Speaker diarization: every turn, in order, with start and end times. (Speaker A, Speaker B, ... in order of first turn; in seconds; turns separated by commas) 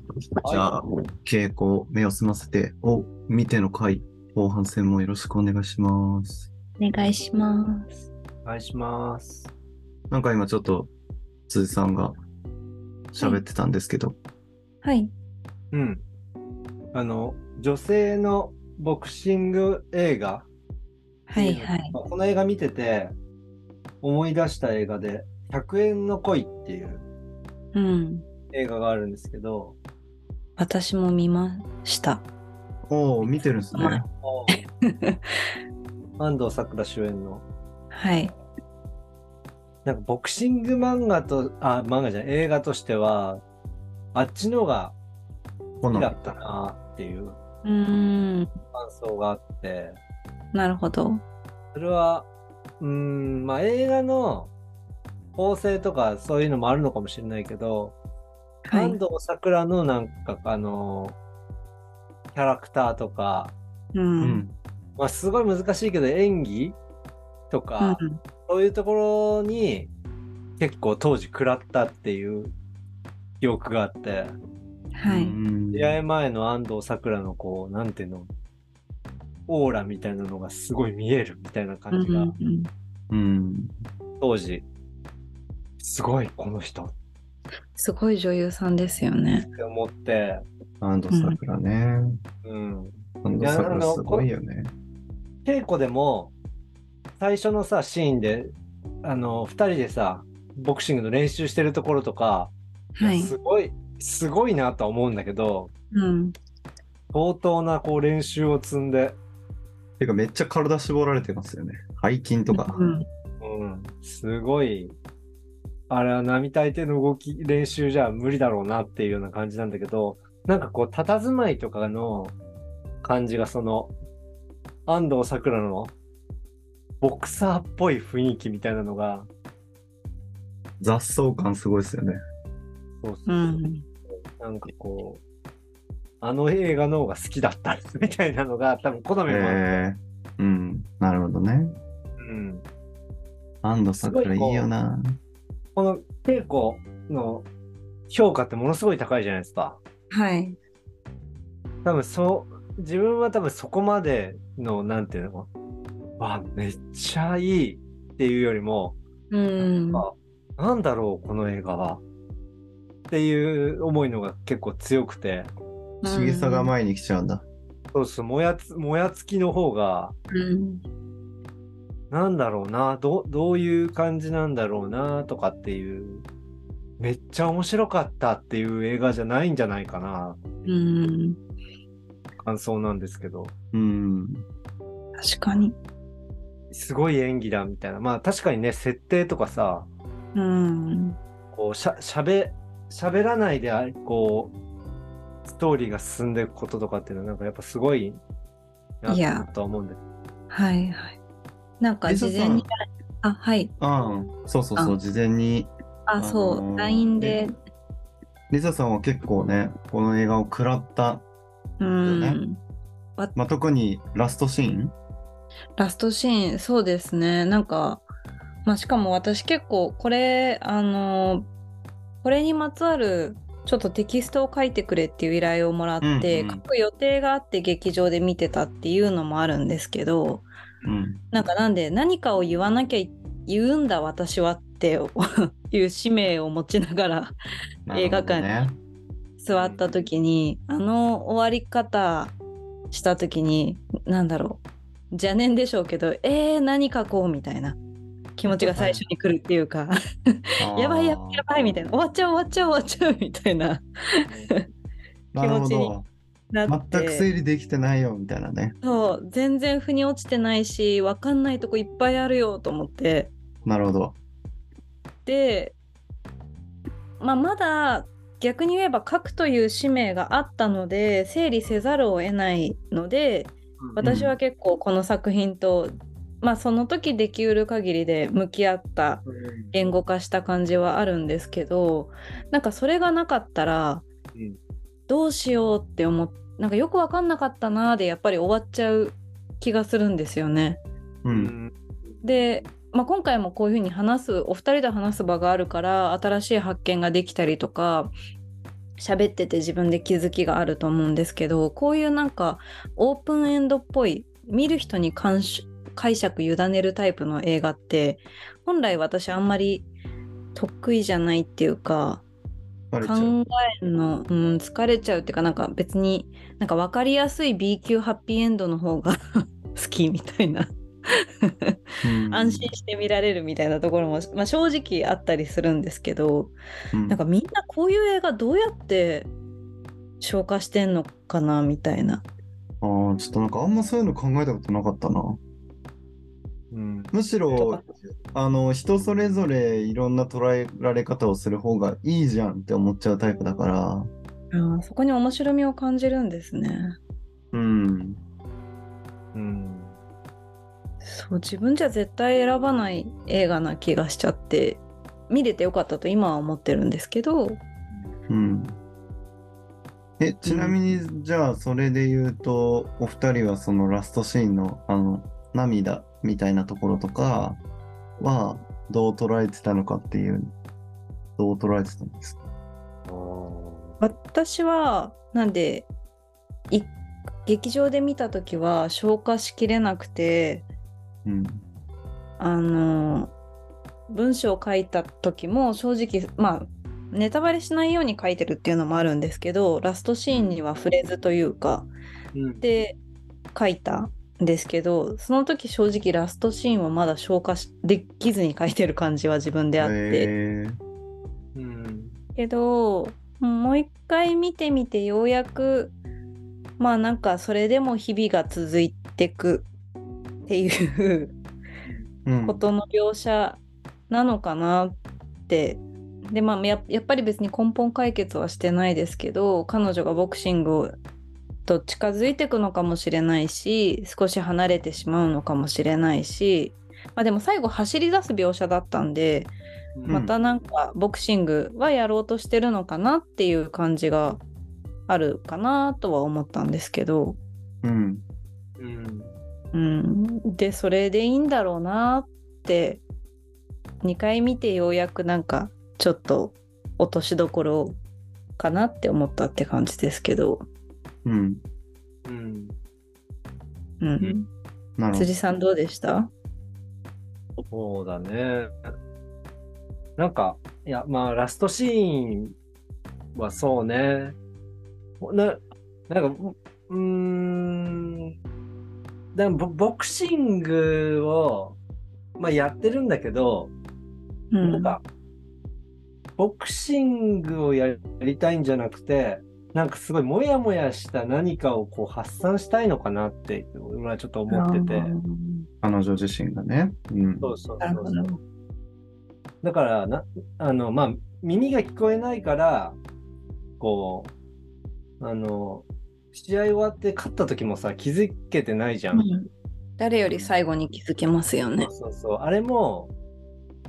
Speaker A: 0.4-6.5, Speaker B: 0.5-0.7, Speaker C: 6.8-8.0, Speaker B: 8.4-9.5, Speaker A: 10.1-10.9, Speaker A: 11.5-12.1, Speaker A: 13.1-14.2, Speaker C: 14.8-15.1, Speaker B: 15.7-16.0, Speaker B: 16.9-20.5, Speaker C: 21.3-21.9, Speaker B: 21.3-23.1, Speaker B: 24.0-27.0, Speaker C: 27.7-28.2, Speaker B: 28.5-29.8, Speaker C: 30.6-32.2, Speaker A: 32.9-34.1, Speaker C: 33.7-34.0, Speaker B: 34.2-34.5, Speaker C: 34.5-35.5, Speaker B: 36.2-37.4, Speaker C: 37.9-38.3, Speaker B: 39.8-43.4, Speaker B: 44.1-44.9, Speaker A: 45.8-46.1, Speaker B: 45.9-47.4, Speaker C: 47.6-48.5, Speaker B: 48.7-50.0, Speaker C: 50.5-51.2, Speaker B: 51.7-52.3, Speaker B: 52.8-54.5, Speaker B: 55.4-58.0, Speaker C: 58.6-59.0, Speaker B: 58.7-61.2, Speaker B: 62.3-63.5, Speaker C: 63.9-64.4, Speaker A: 64.2-64.5, Speaker B: 65.0-66.8, Speaker B: 67.5-69.9, Speaker C: 67.8-68.2, Speaker B: 70.6-72.5, Speaker B: 73.4-74.4, Speaker C: 74.9-75.3, Speaker A: 75.0-76.0, Speaker B: 75.7-78.3, Speaker B: 79.5-82.3, Speaker C: 81.9-82.7, Speaker A: 83.1-83.7, Speaker B: 84.2-84.6, Speaker B: 85.8-86.9, Speaker C: 87.8-89.5, Speaker B: 89.5-90.4, Speaker A: 90.8-92.2, Speaker C: 91.1-91.4, Speaker B: 92.4-94.3, Speaker A: 93.2-94.7, Speaker B: 95.4-96.3, Speaker B: 97.2-105.7, Speaker C: 102.9-103.3, Speaker C: 105.9-106.3, Speaker B: 107.1-109.2, Speaker A: 110.0-112.8, Speaker C: 112.5-113.0, Speaker B: 113.4-115.0, Speaker B: 115.9-122.3, Speaker B: 123.0-123.9, Speaker B: 124.9-125.9, Speaker B: 127.0-129.3, Speaker A: 130.8-132.2, Speaker B: 133.0-133.6, Speaker C: 133.3-133.8, Speaker B: 134.4-135.2, Speaker B: 136.2-139.8, Speaker A: 139.3-141.8, Speaker B: 142.2-142.6, Speaker A: 143.6-145.2, Speaker B: 144.0-144.7, Speaker B: 145.8-147.4, Speaker B: 148.1-149.8, Speaker C: 150.1-150.6, Speaker B: 151.8-155.5, Speaker B: 156.2-159.0, Speaker C: 159.3-160.0, Speaker B: 159.6-162.0, Speaker B: 163.1-165.5, Speaker C: 166.0-166.7, Speaker A: 166.0-167.4, Speaker B: 167.9-170.2, Speaker C: 170.3-170.8, Speaker B: 172.1-176.2, Speaker B: 177.0-180.4, Speaker C: 180.7-181.4, Speaker B: 182.4-183.5, Speaker A: 183.7-184.4, Speaker C: 185.2-185.7, Speaker B: 186.7-189.9, Speaker C: 190.3-191.2, Speaker B: 191.5-194.5, Speaker B: 195.4-198.2, Speaker B: 199.0-200.0, Speaker C: 199.1-199.4, Speaker C: 200.5-201.2, Speaker C: 201.8-203.7, Speaker A: 202.1-202.7, Speaker A: 203.8-207.4, Speaker C: 206.1-207.5, Speaker A: 208.5-211.2, Speaker C: 211.8-212.6, Speaker A: 212.0-212.4, Speaker A: 213.3-214.9, Speaker C: 215.8-218.0, Speaker C: 218.6-221.5, Speaker C: 222.2-230.5, Speaker A: 226.0-226.6, Speaker A: 230.8-231.2, Speaker C: 231.3-237.3, Speaker A: 237.9-238.8, Speaker C: 237.9-238.5, Speaker C: 239.4-242.3, Speaker B: 239.5-239.8, Speaker C: 242.9-247.8, Speaker C: 248.3-254.6, Speaker B: 248.5-249.0, Speaker A: 250.6-251.4, Speaker A: 255.3-256.1, Speaker C: 255.4-255.9, Speaker C: 256.5-257.2, Speaker A: 256.7-258.7, Speaker C: 258.8-263.3, Speaker A: 263.6-264.2, Speaker C: 265.2-265.7, Speaker C: 267.2-284.1, Speaker A: 274.0-274.3, Speaker B: 279.2-279.7, Speaker C: 285.1-290.8, Speaker A: 291.2-291.5, Speaker B: 291.3-292.4, Speaker C: 292.2-298.1, Speaker C: 299.0-309.9, Speaker C: 310.5-312.2, Speaker A: 312.9-313.3, Speaker C: 313.0-321.8, Speaker A: 322.0-322.7, Speaker C: 322.3-326.5, Speaker A: 326.9-327.2, Speaker C: 327.1-329.3, Speaker C: 330.2-332.2, Speaker A: 332.8-335.4, Speaker B: 336.7-337.1, Speaker A: 337.1-344.1, Speaker C: 337.5-337.9, Speaker C: 344.5-347.0, Speaker A: 347.5-348.2, Speaker B: 349.3-350.0, Speaker C: 351.0-357.6, Speaker A: 358.3-358.8, Speaker A: 360.2-367.6, Speaker C: 360.4-361.0, Speaker A: 368.2-370.5, Speaker A: 371.4-372.4, Speaker B: 373.1-374.0, Speaker C: 374.0-375.9, Speaker C: 377.4-380.6, Speaker A: 381.2-381.6, Speaker C: 382.4-383.3, Speaker C: 384.1-391.9, Speaker B: 392.3-392.6, Speaker C: 392.6-393.0, Speaker C: 393.5-400.3, Speaker A: 399.8-400.8, Speaker B: 401.5-402.2, Speaker C: 402.4-405.9, Speaker C: 406.8-409.7, Speaker C: 410.5-411.4, Speaker A: 412.2-412.7, Speaker C: 412.4-414.9, Speaker C: 415.5-421.0, Speaker C: 421.6-429.5, Speaker B: 429.9-430.2, Speaker A: 430.1-430.3, Speaker C: 430.1-434.4, Speaker C: 435.1-437.4, Speaker A: 437.8-438.2, Speaker B: 438.8-439.3, Speaker C: 439.7-443.0, Speaker C: 444.0-448.0, Speaker C: 448.6-450.7, Speaker A: 451.2-451.6, Speaker B: 452.2-452.8, Speaker C: 454.0-454.5, Speaker A: 455.0-455.3, Speaker C: 455.1-456.3, Speaker B: 457.7-458.9, Speaker B: 460.2-462.5, Speaker B: 463.3-464.4, Speaker B: 465.2-468.3, Speaker B: 469.3-471.8, Speaker B: 472.4-473.7, Speaker C: 474.5-475.0, Speaker B: 474.6-475.0, Speaker B: 476.4-485.1, Speaker C: 484.5-485.7, Speaker A: 485.8-487.5, Speaker B: 487.4-488.2, Speaker C: 487.8-488.4, Speaker B: 489.6-493.0, Speaker B: 493.8-494.3, Speaker B: 495.2-499.2, Speaker C: 499.1-501.9, Speaker B: 501.8-503.1